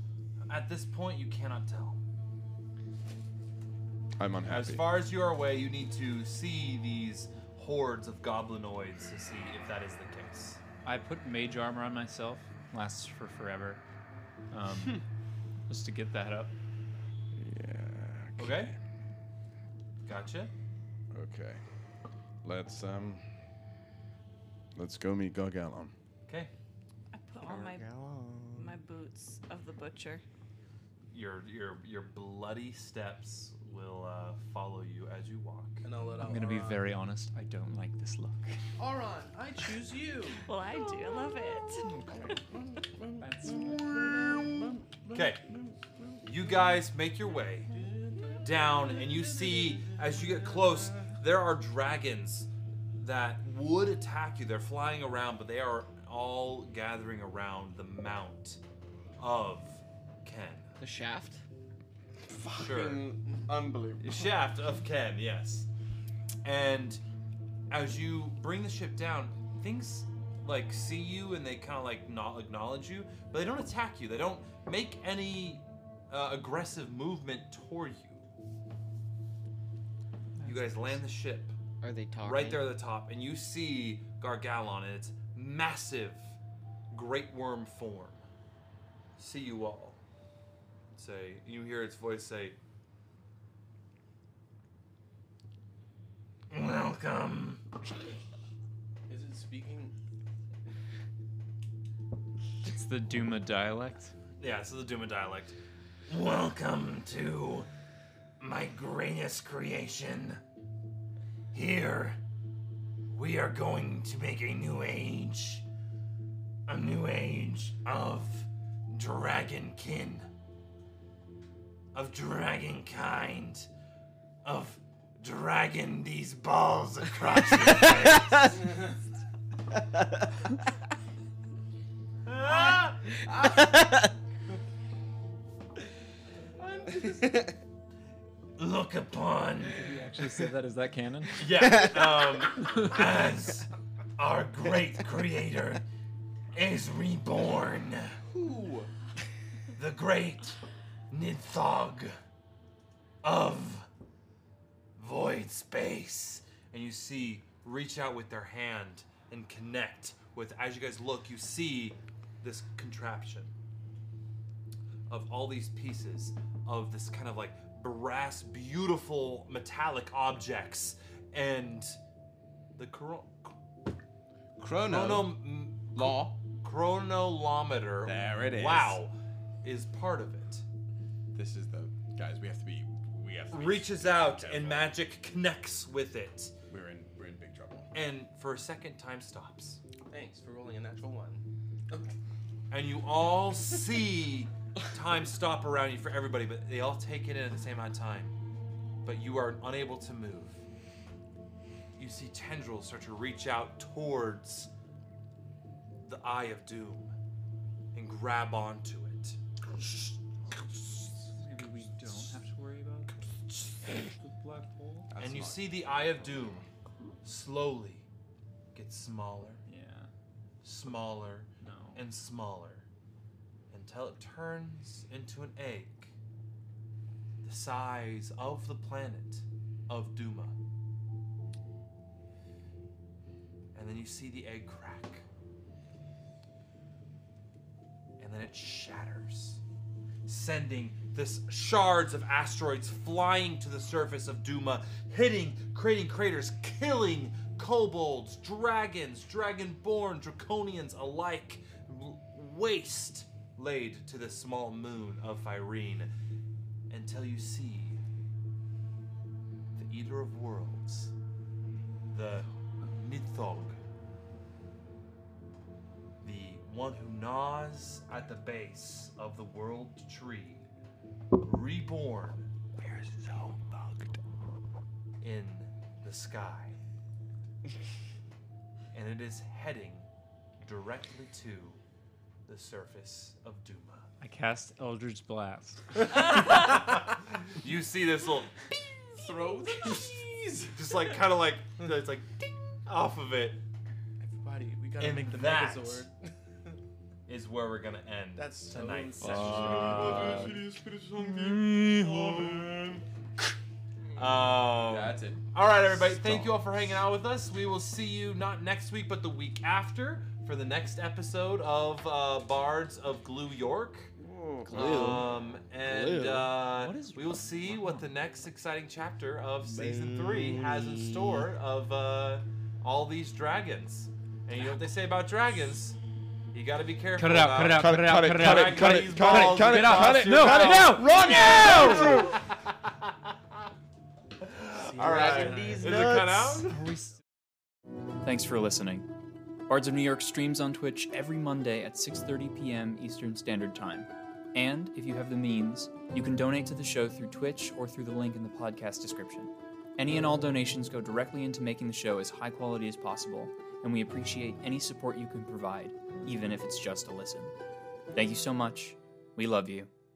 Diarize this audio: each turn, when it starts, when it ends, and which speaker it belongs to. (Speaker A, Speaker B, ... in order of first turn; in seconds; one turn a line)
Speaker A: 0.5-2.0
Speaker B: 4.2-5.0
Speaker A: 4.5-10.6
Speaker C: 10.8-13.8
Speaker C: 14.5-15.1
Speaker C: 15.7-16.5
Speaker B: 17.4-18.7
Speaker A: 18.4-18.7
Speaker A: 20.1-20.5
Speaker B: 21.1-21.6
Speaker B: 22.4-23.3
Speaker B: 24.7-25.9
Speaker A: 26.3-26.5
Speaker D: 27.1-27.9
Speaker E: 27.4-28.7
Speaker D: 28.6-30.2
Speaker A: 31.1-35.9
Speaker F: 35.8-36.8
Speaker C: 36.2-38.6
Speaker F: 38.8-40.4
Speaker D: 40.4-42.4
Speaker C: 42.0-42.3
Speaker G: 43.1-44.6
Speaker C: 43.2-44.1
Speaker A: 45.1-45.4
Speaker A: 46.2-47.7
Speaker F: 47.7-49.9
Speaker A: 48.4-58.6
Speaker A: 59.2-60.7
Speaker E: 60.8-61.4
Speaker G: 62.4-64.3
Speaker A: 62.5-63.1
Speaker A: 64.0-65.7
Speaker A: 66.4-67.0
Speaker A: 67.7-78.2
Speaker C: 80.4-81.0
Speaker A: 80.4-81.5
Speaker E: 81.8-82.7
Speaker A: 82.2-86.4
Speaker A: 86.9-88.2
Speaker A: 89.2-90.0
Speaker A: 91.0-92.6
Speaker A: 96.5-97.6
Speaker F: 99.1-99.9
Speaker C: 102.6-104.1
Speaker A: 104.4-107.7
Speaker A: 108.4-110.4
Speaker A: 111.5-112.2
Speaker A: 113.1-115.7
Speaker A: 116.7-120.3
Speaker A: 121.9-123.7
Speaker A: 124.4-128.8
Speaker A: 132.2-133.0
Speaker E: 133.4-134.1
Speaker F: 136.6-137.4
Speaker E: 137.1-137.4
Speaker A: 138.6-139.8
Speaker C: 139.7-141.8
Speaker A: 141.4-145.8
Speaker E: 141.8-142.2
Speaker C: 142.6-142.9
Speaker A: 146.5-148.2
Speaker G: 148.4-148.9
Speaker A: 149.8-150.6
Speaker A: 151.1-152.2
Speaker A: 153.2-153.9
Speaker A: 155.0-163.5
Speaker A: 165.1-172.0
Speaker A: 172.8-173.6
Speaker G: 174.6-175.3
Speaker A: 174.8-180.7
Speaker G: 175.9-176.3
Speaker G: 178.0-179.0
Speaker G: 181.3-184.9
Speaker A: 183.5-186.6
Speaker G: 186.7-187.9
Speaker A: 187.9-189.8
Speaker F: 190.1-192.1
Speaker A: 192.7-198.3
Speaker A: 199.1-200.6
Speaker A: 202.0-204.7
Speaker A: 206.0-207.1
Speaker A: 207.9-210.1
Speaker C: 211.3-213.2
Speaker C: 213.8-215.1
Speaker G: 215.1-216.5
Speaker A: 215.2-216.7
Speaker A: 217.2-218.1
Speaker A: 218.7-219.6
Speaker C: 219.7-220.1
Speaker A: 220.6-222.9
Speaker C: 221.6-222.1
Speaker A: 223.7-226.1
Speaker A: 227.4-230.6
Speaker A: 233.7-235.3
Speaker A: 238.2-239.6
Speaker A: 240.3-256.1
Speaker A: 256.9-258.0
Speaker A: 259.7-261.1
Speaker A: 262.1-263.8
Speaker A: 266.2-270.6
Speaker A: 271.4-272.5
Speaker A: 275.2-276.8
Speaker A: 278.9-280.1
Speaker A: 280.6-281.8
Speaker A: 282.5-284.1
Speaker C: 284.2-285.9
Speaker A: 286.3-288.6
Speaker G: 289.4-290.7
Speaker F: 289.4-290.2
Speaker A: 290.7-293.6
Speaker F: 294.2-296.3
Speaker A: 295.0-296.1
Speaker A: 297.3-300.5
Speaker F: 298.4-299.8
Speaker C: 299.2-300.6
Speaker G: 299.3-303.0
Speaker A: 301.5-302.6
Speaker A: 304.2-314.1
Speaker G: 304.7-305.4
Speaker C: 314.7-315.2
Speaker A: 314.7-326.0
Speaker E: 314.7-315.2
Speaker G: 314.8-315.3
Speaker G: 315.9-316.5
Speaker C: 316.6-318.1
Speaker A: 326.5-333.4
Speaker C: 327.1-332.2
Speaker B: 327.7-332.4
Speaker A: 334.4-336.7
Speaker E: 334.9-336.7
Speaker F: 335.0-335.8
Speaker C: 336.7-337.2
Speaker C: 338.2-339.1
Speaker C: 339.7-357.5
Speaker C: 358.1-359.9